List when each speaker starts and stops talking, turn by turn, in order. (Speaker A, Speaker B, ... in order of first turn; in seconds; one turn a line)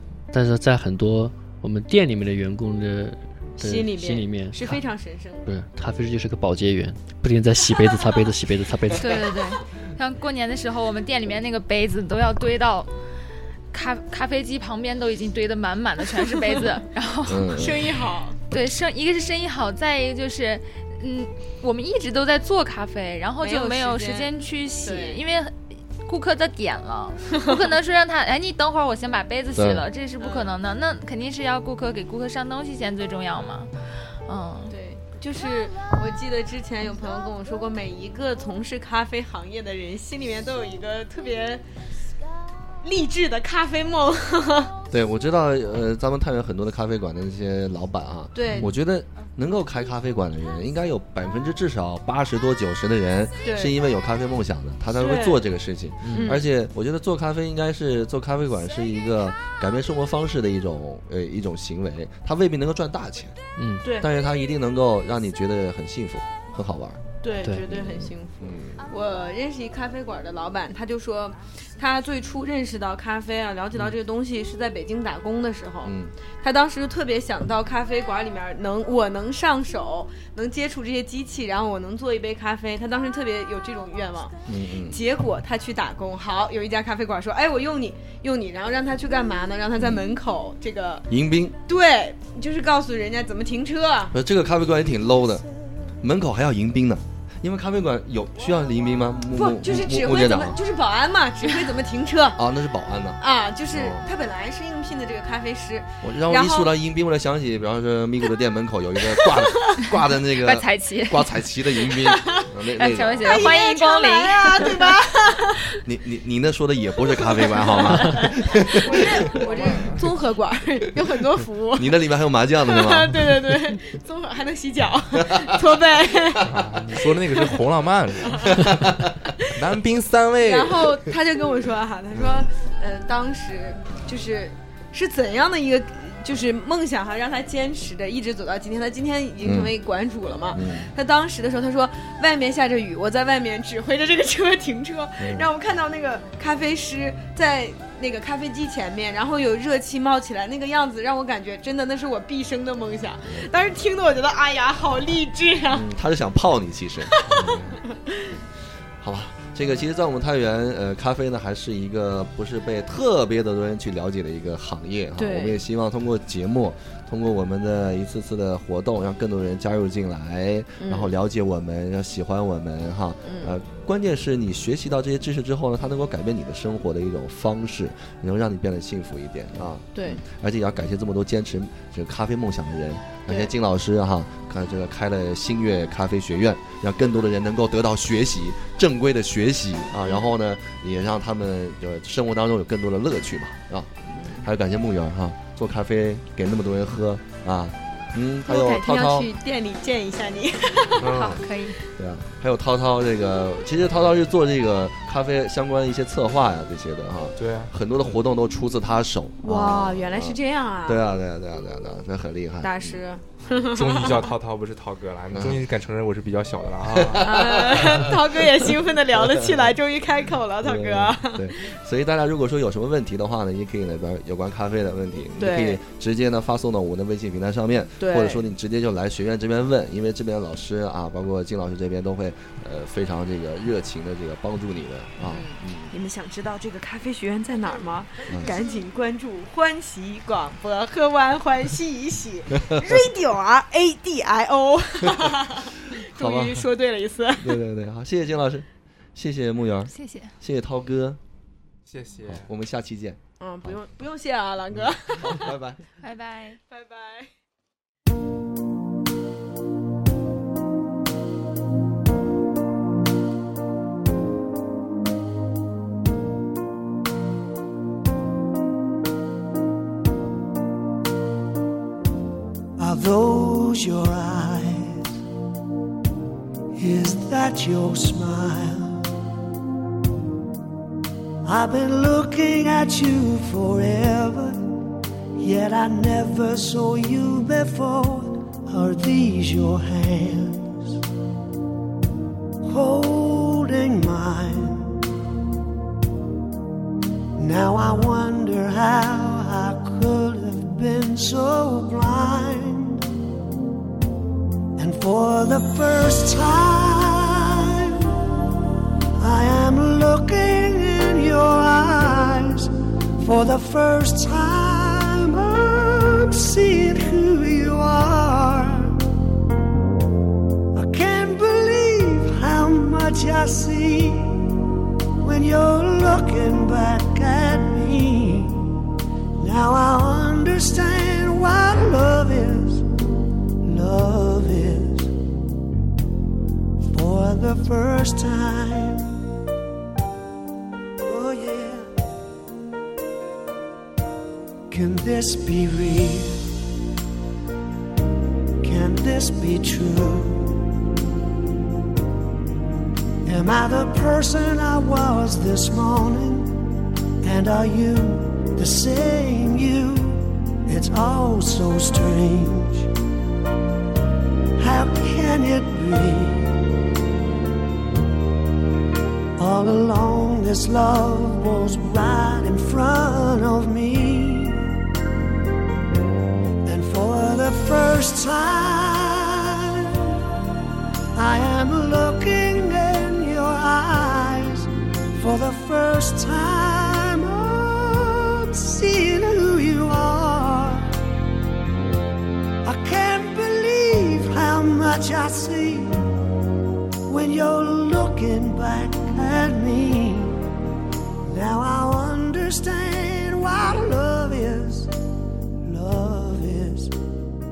Speaker A: 0.3-4.8
Speaker B: 3.6-5.5
Speaker A: 5.5-9.1
Speaker C: 8.9-12.9
Speaker C: 13.7-17.8
Speaker D: 17.3-18.1
Speaker B: 17.5-18.4
Speaker C: 18.5-33.7
Speaker B: 23.4-25.2
Speaker B: 27.4-27.6
Speaker D: 29.5-29.9
Speaker B: 30.2-30.5
Speaker C: 34.3-34.7
Speaker B: 34.7-41.6
Speaker B: 42.8-44.7
Speaker D: 44.9-63.4
Speaker B: 48.4-48.8
Speaker B: 53.4-53.8
Speaker B: 55.0-55.4
Speaker A: 56.0-56.4
Speaker B: 56.1-56.5
Speaker A: 63.6-63.9
Speaker B: 63.8-64.1
Speaker D: 64.0-67.0
Speaker B: 67.2-84.3
Speaker D: 67.7-68.9
Speaker D: 75.8-76.1
Speaker D: 84.5-85.0
Speaker B: 84.9-91.1
Speaker D: 89.8-90.0
Speaker D: 91.1-91.6
Speaker B: 91.7-94.2
Speaker D: 94.1-95.5
Speaker D: 96.0-100.6
Speaker B: 99.3-102.4
Speaker D: 102.4-104.1
Speaker B: 103.2-106.7
Speaker D: 106.0-113.5
Speaker B: 109.2-109.8
Speaker C: 110.4-111.3
Speaker B: 111.9-112.5
Speaker C: 112.7-115.0
Speaker B: 113.2-115.7
Speaker D: 115.8-120.0
Speaker B: 117.1-122.0
Speaker D: 121.7-123.5
Speaker B: 122.6-127.6
Speaker D: 125.1-126.6
Speaker E: 126.5-128.9
Speaker B: 128.3-128.7
Speaker D: 128.5-129.2
Speaker E: 129.6-131.0
Speaker B: 130.4-155.9
Speaker D: 132.2-132.4
Speaker D: 139.4-139.7
Speaker D: 140.5-140.9
Speaker D: 145.2-145.5
Speaker D: 155.7-157.8
Speaker B: 157.1-158.4
Speaker D: 159.0-199.3
Speaker B: 165.2-165.6
Speaker B: 170.8-171.1
Speaker B: 173.2-173.6
Speaker B: 179.9-180.2
Speaker B: 190.0-190.3
Speaker B: 194.2-194.4
Speaker B: 198.5-201.1
Speaker D: 201.0-201.4
Speaker C: 201.0-201.8
Speaker D: 202.0-213.0
Speaker E: 207.4-207.7
Speaker B: 209.4-211.0
Speaker B: 212.6-214.3
Speaker E: 213.7-217.3
Speaker D: 215.3-215.6
Speaker D: 216.9-219.6
Speaker B: 217.2-221.7
Speaker D: 220.6-236.0
Speaker B: 225.4-225.8
Speaker B: 228.0-228.4
Speaker B: 235.2-247.6
Speaker D: 238.3-238.5
Speaker D: 246.1-246.7
Speaker D: 247.4-251.2
Speaker C: 249.9-250.3
Speaker E: 251.9-252.4
Speaker D: 252.3-253.8
Speaker B: 253.4-255.5
Speaker D: 255.2-255.8
Speaker C: 256.0-256.6
Speaker B: 256.7-257.3
Speaker F: 272.8-275.2
Speaker F: 276.8-279.1
Speaker F: 281.4-284.8
Speaker F: 285.4-291.0
Speaker F: 292.7-295.1
Speaker F: 297.4-303.1
Speaker F: 304.8-308.1
Speaker F: 309.2-319.0
Speaker F: 320.7-324.6
Speaker F: 325.2-328.8
Speaker F: 329.4-332.9
Speaker F: 333.6-335.1
Speaker F: 336.8-339.2
Speaker F: 341.1-341.9
Speaker F: 344.7-346.5
Speaker F: 348.6-350.7
Speaker F: 353.2-362.9
Speaker F: 364.6-366.6
Speaker F: 369.4-374.7
Speaker F: 376.6-379.9
Speaker F: 381.1-390.9
Speaker F: 392.6-396.0
Speaker F: 397.1-400.4
Speaker F: 401.2-404.9
Speaker F: 405.6-407.0